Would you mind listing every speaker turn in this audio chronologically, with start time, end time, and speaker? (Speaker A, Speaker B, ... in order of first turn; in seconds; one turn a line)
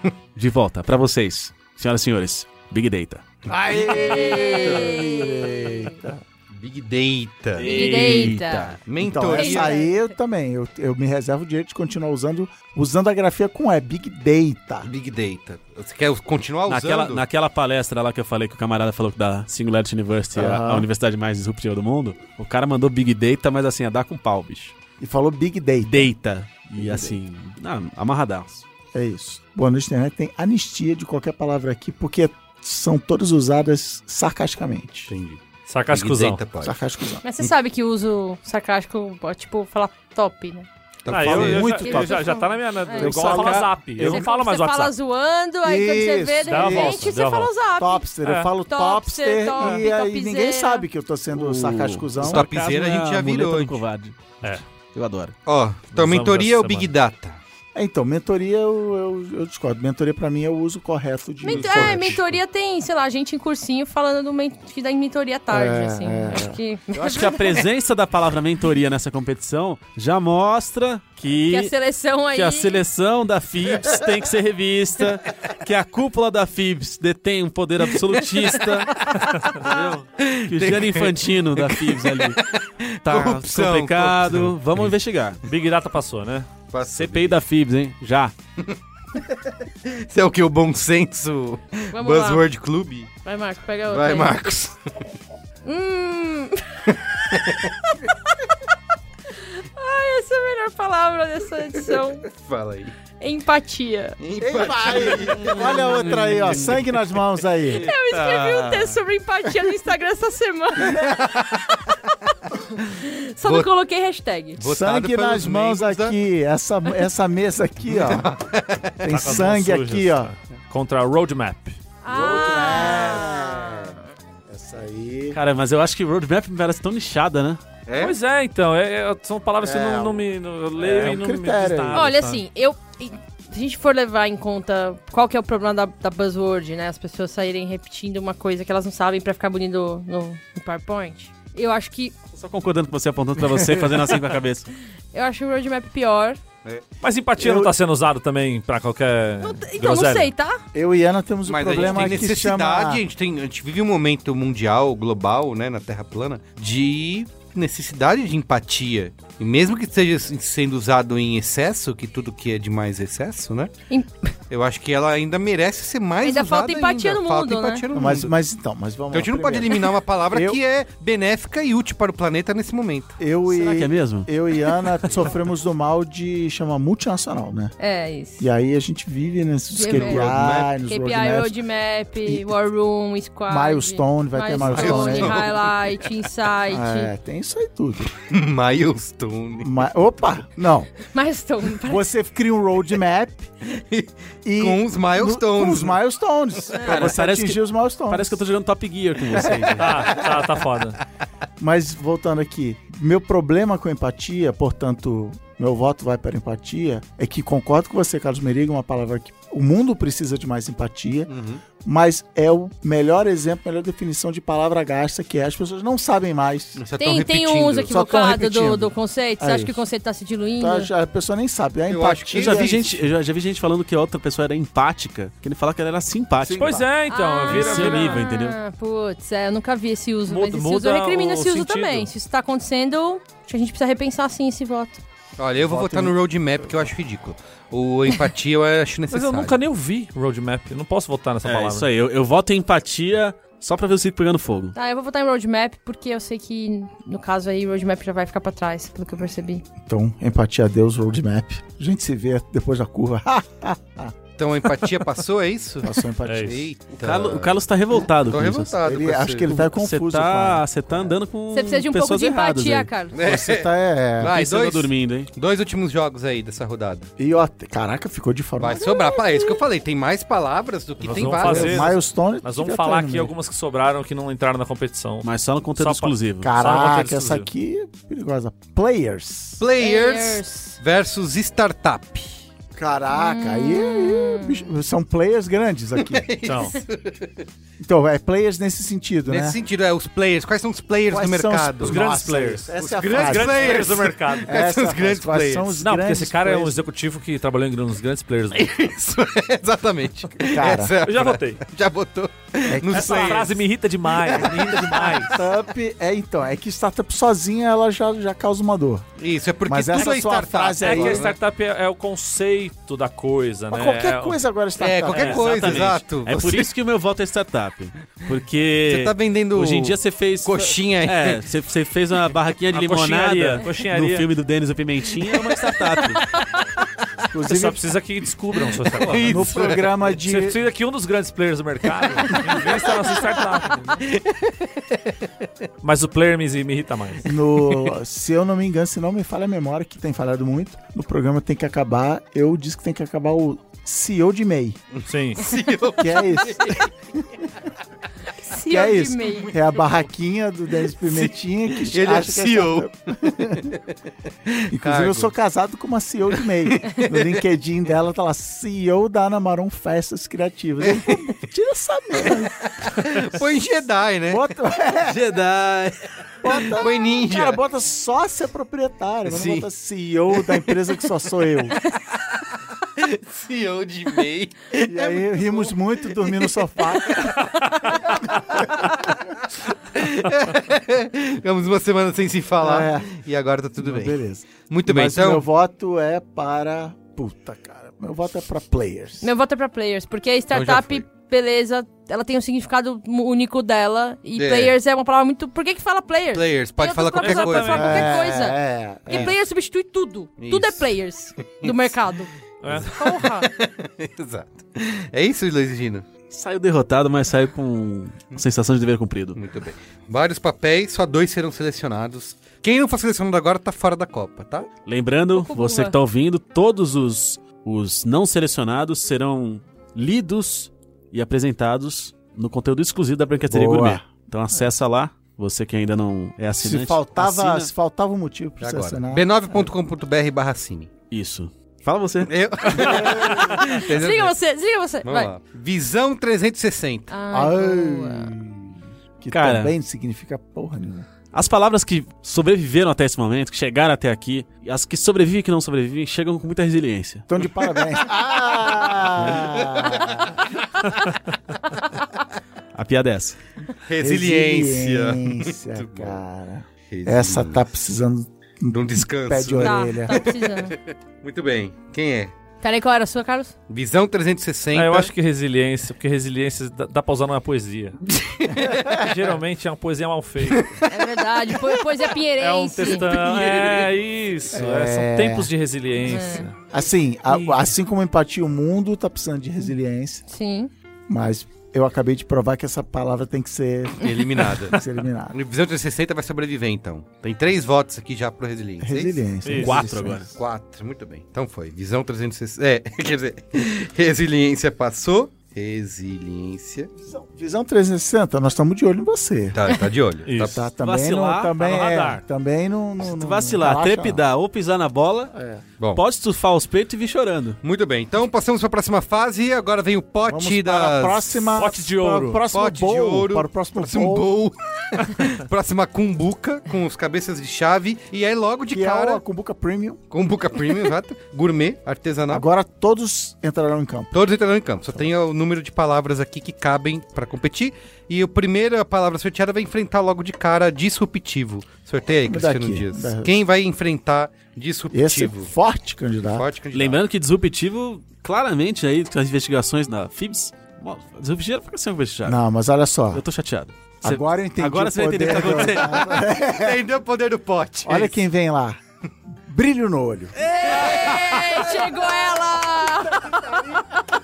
Speaker A: 0.3-3.2
Speaker B: 3.5-5.0
Speaker C: 3.5-6.2
Speaker D: 3.8-5.9
Speaker B: 6.5-8.3
Speaker A: 7.5-8.8
Speaker D: 7.6-8.7
Speaker B: 8.8-9.8
Speaker C: 9.0-14.9
Speaker D: 9.3-10.1
Speaker B: 14.8-17.2
Speaker A: 16.7-24.7
Speaker C: 20.3-20.9
Speaker C: 25.0-26.1
Speaker A: 25.9-28.6
Speaker C: 26.8-27.2
Speaker C: 28.9-35.1
Speaker B: 35.1-36.8
Speaker E: 35.7-36.4
Speaker C: 36.6-37.2
Speaker D: 37.2-40.7
Speaker B: 41.0-41.8
Speaker E: 41.1-44.9
Speaker C: 41.1-42.3
Speaker D: 41.4-48.1
Speaker C: 43.0-44.2
Speaker A: 43.1-43.6
Speaker C: 45.6-47.2
Speaker E: 46.5-47.5
Speaker C: 47.8-52.5
Speaker E: 48.2-48.5
Speaker D: 48.7-50.9
Speaker A: 51.3-55.3
Speaker B: 52.2-53.8
Speaker B: 55.5-57.4
Speaker E: 55.9-56.9
Speaker C: 57.7-62.2
Speaker D: 61.4-67.6
Speaker B: 61.5-62.2
Speaker C: 65.5-66.6
Speaker A: 66.9-71.8
Speaker D: 71.5-72.8
Speaker A: 72.3-79.0
Speaker E: 79.3-79.6
Speaker B: 79.6-84.9
Speaker A: 79.6-82.4
Speaker A: 83.0-85.4
Speaker E: 85.5-86.5
Speaker B: 86.7-87.4
Speaker A: 86.9-88.3
Speaker B: 88.7-93.1
Speaker D: 91.9-92.4
Speaker D: 93.2-94.3
Speaker B: 93.9-94.9
Speaker D: 95.6-96.6
Speaker B: 96.9-97.7
Speaker D: 97.9-98.4
Speaker D: 99.3-102.2
Speaker B: 101.9-102.9
Speaker D: 103.2-104.2
Speaker B: 104.2-106.8
Speaker C: 104.4-107.9
Speaker A: 105.6-106.8
Speaker D: 107.8-112.3
Speaker A: 108.1-108.8
Speaker B: 110.9-111.7
Speaker D: 112.9-114.6
Speaker B: 113.4-113.7
Speaker B: 114.6-116.2
Speaker C: 114.6-118.3
Speaker B: 117.9-119.4
Speaker C: 119.0-120.3
Speaker E: 119.1-121.8
Speaker D: 122.0-124.0
Speaker C: 122.1-125.4
Speaker A: 125.3-127.6
Speaker B: 127.9-128.2
Speaker E: 128.0-132.4
Speaker C: 129.6-132.1
Speaker D: 131.9-142.1
Speaker A: 142.3-144.7
Speaker D: 145.1-146.4
Speaker E: 147.0-150.3
Speaker C: 147.4-147.7
Speaker D: 149.4-150.6
Speaker C: 150.7-153.0
Speaker B: 151.4-163.7
Speaker D: 163.9-164.3
Speaker B: 164.5-168.3
Speaker D: 166.2-167.8
Speaker C: 167.9-170.6
Speaker B: 169.1-173.2
Speaker C: 173.2-177.7
Speaker A: 173.6-174.3
Speaker D: 177.8-178.5
Speaker C: 178.4-181.6
Speaker D: 179.7-187.1
Speaker B: 179.9-180.7
Speaker C: 182.2-182.5
Speaker C: 183.5-185.5
Speaker B: 184.6-185.7
Speaker C: 186.7-188.1
Speaker B: 188.2-189.9
Speaker C: 189.6-190.9
Speaker D: 191.1-192.0
Speaker C: 191.8-193.5
Speaker B: 193.7-196.0
Speaker C: 194.4-198.4
Speaker D: 196.7-197.1
Speaker A: 196.8-200.1
Speaker C: 199.3-200.4
Speaker E: 199.8-201.0
Speaker C: 201.6-211.3
Speaker B: 211.3-211.6
Speaker C: 211.8-216.8
Speaker B: 216.8-218.0
Speaker D: 217.0-220.9
Speaker C: 217.9-219.8
Speaker C: 220.6-223.0
Speaker B: 221.9-222.9
Speaker A: 222.3-226.8
Speaker C: 226.4-226.9
Speaker E: 226.6-228.2
Speaker D: 227.1-235.0
Speaker A: 227.5-228.6
Speaker E: 230.2-232.1
Speaker B: 235.4-239.6
Speaker C: 235.6-236.9
Speaker E: 239.1-241.9
Speaker A: 241.4-244.8
Speaker D: 244.7-249.6
Speaker C: 249.8-254.1
Speaker B: 254.4-259.5
Speaker C: 255.8-256.7
Speaker E: 256.2-256.6
Speaker A: 257.0-258.7
Speaker C: 258.8-261.1
Speaker A: 259.5-262.9
Speaker D: 261.5-263.1
Speaker B: 263.1-267.1
Speaker C: 263.2-264.4
Speaker A: 264.2-265.3
Speaker C: 267.2-269.6
Speaker B: 268.6-272.0
Speaker E: 271.0-277.5
Speaker C: 271.2-273.3
Speaker A: 275.2-276.5
Speaker C: 276.4-279.6
Speaker B: 279.6-282.4
Speaker D: 279.8-280.8
Speaker C: 282.7-286.2
Speaker D: 283.1-284.7
Speaker B: 285.9-287.5
Speaker E: 286.4-286.8
Speaker C: 287.8-289.6
Speaker B: 289.2-292.0
Speaker C: 291.1-296.8
Speaker E: 291.8-294.5
Speaker B: 292.8-295.7
Speaker E: 295.8-298.6
Speaker B: 298.5-305.4
Speaker C: 300.4-300.9
Speaker E: 301.0-301.6
Speaker C: 302.7-303.5
Speaker E: 302.9-305.3
Speaker C: 304.4-309.1
Speaker B: 309.2-311.3
Speaker C: 309.6-311.3
Speaker E: 310.8-314.4
Speaker C: 313.7-315.9
Speaker B: 314.8-316.7
Speaker A: 315.1-326.2
Speaker E: 315.3-315.7
Speaker B: 318.9-321.4
Speaker E: 322.7-324.3
Speaker C: 327.2-327.9
Speaker E: 327.4-329.5
Speaker B: 328.9-329.9
Speaker C: 329.1-330.6
Speaker E: 330.2-334.0
Speaker C: 332.3-332.6
Speaker B: 334.0-335.1
Speaker E: 335.8-337.3
Speaker C: 337.2-344.8
Speaker B: 344.9-346.9
Speaker E: 345.1-345.5
Speaker C: 346.0-346.9
Speaker D: 348.4-349.6
Speaker C: 348.6-353.8
Speaker B: 351.0-353.8
Speaker B: 354.5-355.3
Speaker C: 354.7-362.6
Speaker B: 356.5-357.4
Speaker B: 360.8-361.2
Speaker B: 362.2-364.5
Speaker C: 364.3-365.3
Speaker A: 365.1-365.9
Speaker C: 366.4-371.8
Speaker B: 366.5-367.6
Speaker B: 373.0-377.3
Speaker C: 374.9-377.5
Speaker B: 378.7-379.1
Speaker B: 379.9-384.2
Speaker C: 382.6-383.1
Speaker C: 383.8-389.3
Speaker B: 384.7-385.5
Speaker D: 389.2-402.3
Speaker B: 390.5-391.0
Speaker B: 394.4-394.7
Speaker B: 396.3-398.0
Speaker E: 397.1-398.1
Speaker C: 397.8-399.3
Speaker B: 400.4-400.9
Speaker B: 401.6-401.9
Speaker E: 402.6-402.9
Speaker B: 402.7-406.1
Speaker D: 402.9-403.5
Speaker A: 406.3-409.4
Speaker B: 409.3-414.7
Speaker A: 414.9-427.7
Speaker D: 415.3-416.0
Speaker C: 423.5-424.1
Speaker C: 426.6-429.7
Speaker B: 428.6-430.9
Speaker A: 431.1-432.3
Speaker B: 432.2-434.3
Speaker C: 432.9-433.4
Speaker D: 433.4-435.3
Speaker B: 435.0-437.1
Speaker D: 437.1-438.3
Speaker C: 437.3-441.1
Speaker A: 439.3-439.7
Speaker A: 441.3-447.3
Speaker C: 447.3-450.4
Speaker B: 449.2-450.4
Speaker A: 452.7-453.4
Speaker B: 453.8-456.2
Speaker C: 454.0-460.2
Speaker B: 456.9-457.6
Speaker B: 458.7-462.3
Speaker D: 459.6-460.7
Speaker D: 462.6-463.5
Speaker B: 463.7-465.1
Speaker E: 464.7-468.0
Speaker B: 468.1-469.0
Speaker E: 468.9-470.8
Speaker B: 470.5-470.9
Speaker D: 470.9-473.1
Speaker E: 472.4-476.5
Speaker C: 474.5-475.5
Speaker D: 476.0-476.5
Speaker C: 476.6-480.2
Speaker E: 477.3-477.6
Speaker D: 480.3-480.7
Speaker C: 481.1-485.4
Speaker B: 484.0-489.2
Speaker C: 488.8-490.3
Speaker E: 489.4-489.9
Speaker A: 489.5-490.3
Speaker B: 490.1-496.9
Speaker C: 497.0-499.6
Speaker B: 499.5-500.6
Speaker E: 500.2-500.6
Speaker C: 500.4-504.2
Speaker A: 500.8-501.5
Speaker E: 501.6-502.2
Speaker A: 503.0-505.3
Speaker C: 505.3-505.6
Speaker A: 505.9-507.6
Speaker B: 507.6-511.5
Speaker C: 510.2-514.3
Speaker E: 511.6-512.4
Speaker B: 512.5-519.2
Speaker C: 518.7-520.0
Speaker B: 520.1-522.5
Speaker C: 522.3-524.1
Speaker B: 524.1-535.5
Speaker C: 532.2-533.4
Speaker C: 534.9-536.5
Speaker B: 536.2-537.0
Speaker A: 536.7-542.4
Speaker C: 542.2-543.2
Speaker A: 543.1-546.1
Speaker C: 544.0-546.8
Speaker B: 545.5-548.2
Speaker C: 547.8-548.8
Speaker C: 549.4-550.3
Speaker A: 550.4-551.6
Speaker D: 550.6-553.2
Speaker B: 550.9-551.3
Speaker C: 553.1-554.0